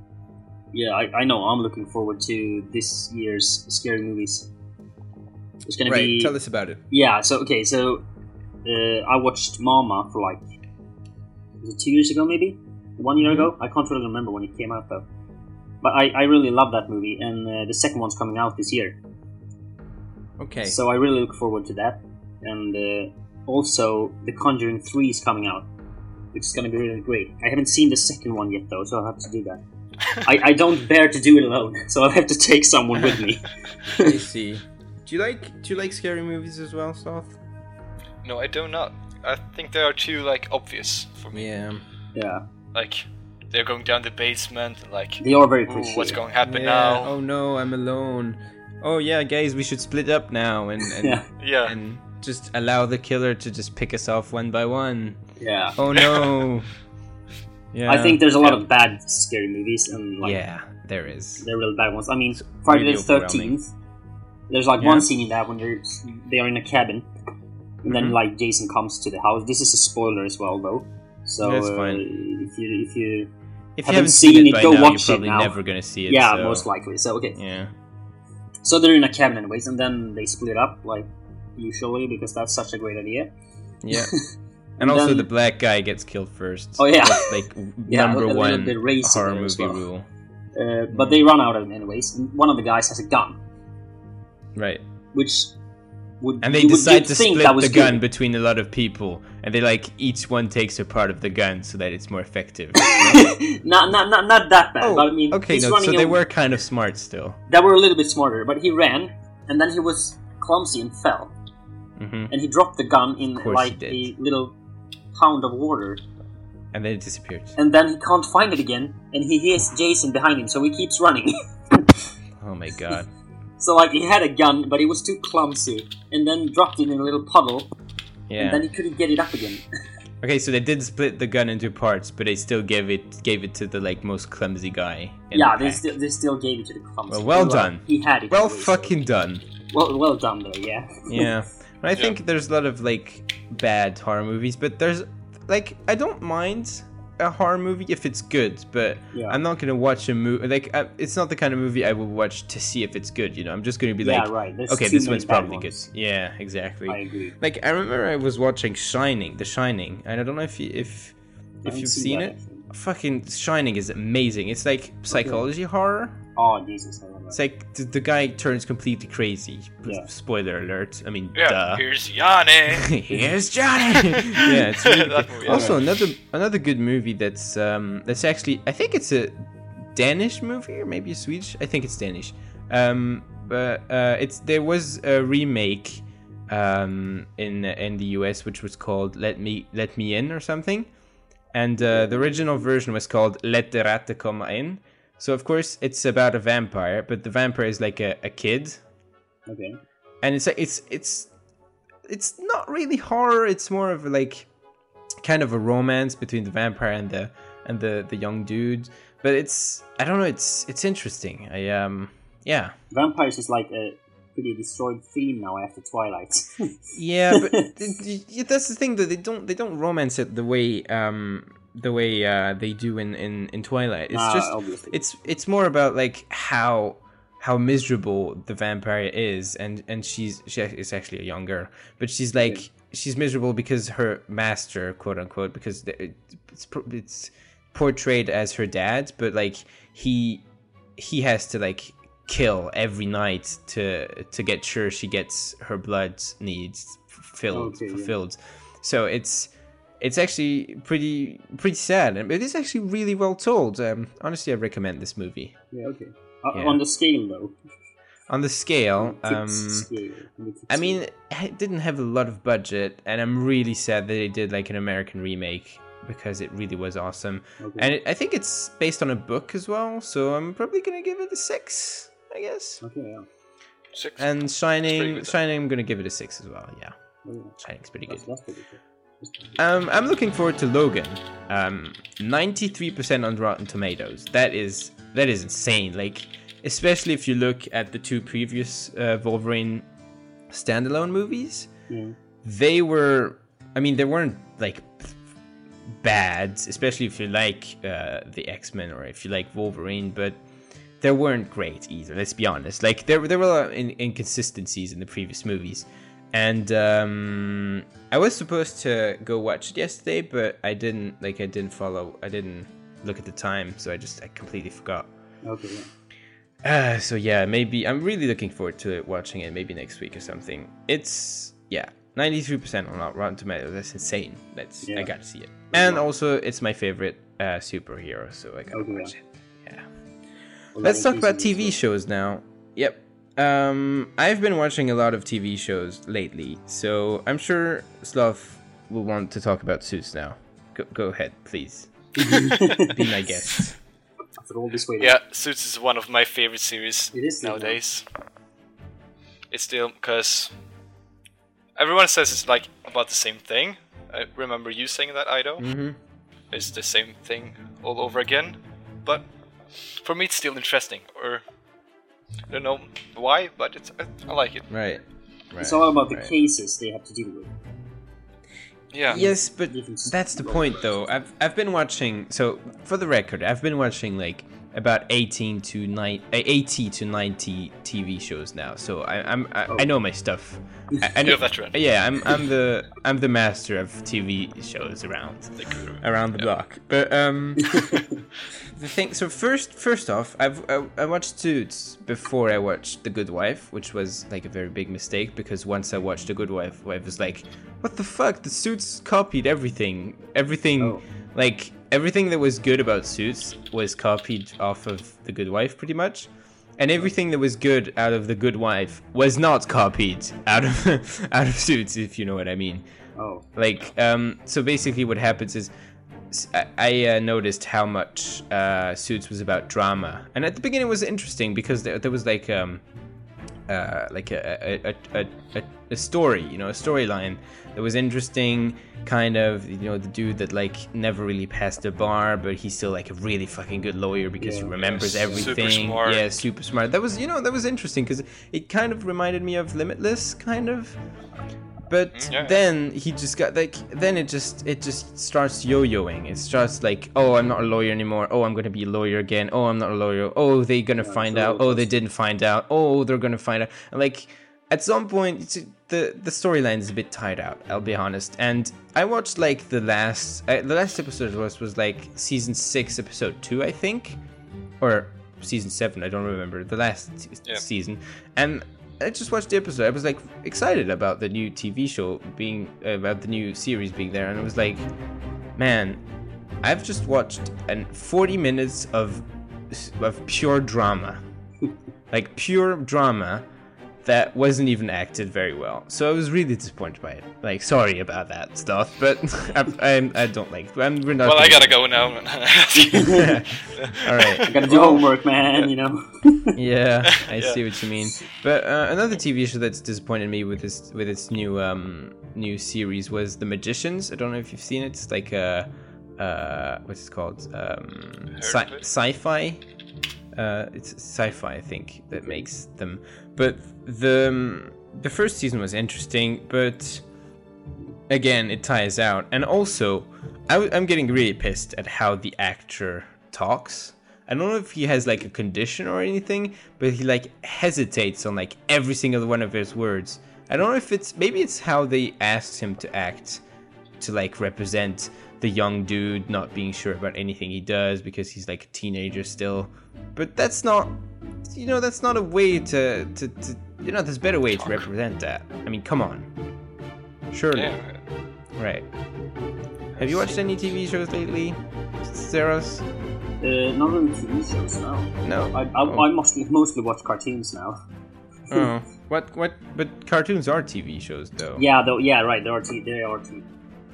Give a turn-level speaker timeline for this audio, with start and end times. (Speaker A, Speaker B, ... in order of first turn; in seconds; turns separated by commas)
Speaker A: 0.7-4.5, Speaker A: 5.7-6.3, Speaker B: 5.8-6.8, Speaker A: 6.9-8.0, Speaker A: 8.6-10.4, Speaker A: 11.6-15.1, Speaker B: 13.2-13.5, Speaker A: 15.8-19.0, Speaker B: 20.4-20.8, Speaker A: 20.6-25.7, Speaker A: 26.3-29.6, Speaker A: 30.2-34.1, Speaker B: 34.0-37.4, Speaker C: 38.2-41.5, Speaker B: 41.3-41.8, Speaker A: 42.1-42.4, Speaker C: 42.7-47.1, Speaker A: 45.2-46.2, Speaker B: 46.4-55.2, Speaker A: 50.9-51.2, Speaker C: 51.4-51.8, Speaker A: 55.4-55.8, Speaker B: 55.8-56.7, Speaker C: 55.9-56.4, Speaker B: 57.7-58.6, Speaker A: 57.9-60.4, Speaker B: 60.2-61.5, Speaker A: 61.4-63.7, Speaker B: 62.3-63.5, Speaker A: 64.5-67.1, Speaker B: 64.8-65.1, Speaker A: 67.8-73.3, Speaker B: 67.8-68.2, Speaker B: 71.4-72.0, Speaker B: 73.8-76.7, Speaker A: 73.8-75.5, Speaker A: 76.1-77.4, Speaker B: 77.3-77.7, Speaker A: 78.6-83.3, Speaker B: 83.8-84.1, Speaker A: 83.9-84.2, Speaker A: 84.8-85.3, Speaker B: 84.8-90.0, Speaker A: 86.8-89.8, Speaker A: 90.5-93.4, Speaker B: 90.9-91.2, Speaker B: 94.5-94.8, Speaker A: 95.1-95.5, Speaker A: 96.2-98.0, Speaker B: 96.4-103.3, Speaker A: 102.8-106.2, Speaker B: 104.8-107.4, Speaker A: 107.5-111.3, Speaker B: 112.0-112.3, Speaker A: 112.3-114.5, Speaker B: 113.3-114.1, Speaker A: 115.1-116.0, Speaker B: 116.7-117.5, Speaker A: 117.5-121.9, Speaker B: 122.4-123.1, Speaker A: 123.6-127.7, Speaker B: 128.3-128.6, Speaker A: 128.4-129.6, Speaker B: 130.2-135.8, Speaker A: 135.3-139.0, Speaker B: 137.1-139.4, Speaker A: 139.7-141.2, Speaker B: 141.1-166.2, Speaker A: 149.1-149.4, Speaker A: 154.0-155.9, Speaker A: 156.9-157.3, Speaker A: 161.6-162.6, Speaker A: 165.1-165.4, Speaker A: 166.3-167.4, Speaker B: 167.3-171.8, Speaker C: 171.3-173.0, Speaker B: 172.7-190.9, Speaker C: 173.9-175.8, Speaker A: 175.5-175.8, Speaker B: 191.5-198.8, Speaker A: 191.8-192.7, Speaker A: 199.5-199.8, Speaker B: 200.2-201.3, Speaker B: 202.1-204.5, Speaker B: 205.2-212.7, Speaker A: 212.9-216.7, Speaker B: 216.9-240.4, Speaker A: 217.3-217.6, Speaker A: 224.1-225.0, Speaker A: 232.4-232.6, Speaker B: 241.0-255.6, Speaker A: 247.5-248.1, Speaker A: 255.7-257.6, Speaker B: 256.5-256.8, Speaker B: 258.3-259.9, Speaker A: 259.0-261.0, Speaker B: 260.7-272.8, Speaker A: 267.6-267.9, Speaker A: 272.8-273.2, Speaker C: 273.9-275.4, Speaker B: 274.2-276.9, Speaker A: 277.2-277.5, Speaker B: 277.6-278.2, Speaker A: 278.1-279.5, Speaker B: 279.6-289.8, Speaker B: 290.5-291.7, Speaker A: 291.9-292.1, Speaker B: 292.4-295.1, Speaker B: 296.0-300.4, Speaker B: 301.0-315.1, Speaker A: 315.4-315.9, Speaker B: 316.6-329.9, Speaker A: 324.8-325.1, Speaker A: 325.7-326.0, Speaker A: 328.7-329.1, Speaker A: 330.8-331.8, Speaker B: 330.8-343.8, Speaker A: 342.2-342.9, Speaker A: 344.4-345.2, Speaker C: 345.0-348.0, Speaker A: 347.1-347.8, Speaker C: 349.5-350.5, Speaker C: 351.8-355.6, Speaker B: 355.6-356.0, Speaker C: 356.5-359.2, Speaker C: 360.0-361.4, Speaker C: 362.5-364.6, Speaker B: 364.7-366.3, Speaker A: 365.6-367.5, Speaker C: 368.9-369.2, Speaker B: 369.1-387.9, Speaker A: 369.1-370.9, Speaker C: 381.2-381.8, Speaker C: 385.6-386.5, Speaker B: 388.7-412.8, Speaker A: 413.2-413.4, Speaker B: 413.6-415.7, Speaker B: 416.3-422.8, Speaker B: 423.7-441.0, Speaker A: 434.4-435.4, Speaker C: 434.8-436.3, Speaker B: 441.9-464.2, Speaker C: 442.1-442.6, Speaker A: 451.0-451.9, Speaker B: 464.8-474.9, Speaker B: 475.6-476.0, Speaker B: 476.6-481.2, Speaker B: 482.1-483.4, Speaker B: 484.0-491.8, Speaker C: 491.2-495.0, Speaker A: 492.8-493.4, Speaker B: 493.0-495.0, Speaker A: 494.4-496.6, Speaker B: 496.6-509.6, Speaker C: 497.1-497.6, Speaker C: 508.3-508.8, Speaker B: 510.3-517.0, Speaker A: 512.1-512.4, Speaker B: 518.1-533.4, Speaker B: 534.0-541.0, Speaker B: 541.5-546.3, Speaker C: 544.6-544.8, Speaker B: 547.3-547.7, Speaker C: 547.5-548.0, Speaker B: 548.6-548.9, Speaker C: 549.9-550.4, Speaker B: 550.0-552.8, Speaker A: 553.4-557.8, Speaker B: 555.2-556.1, Speaker B: 558.5-561.6, Speaker A: 561.5-563.5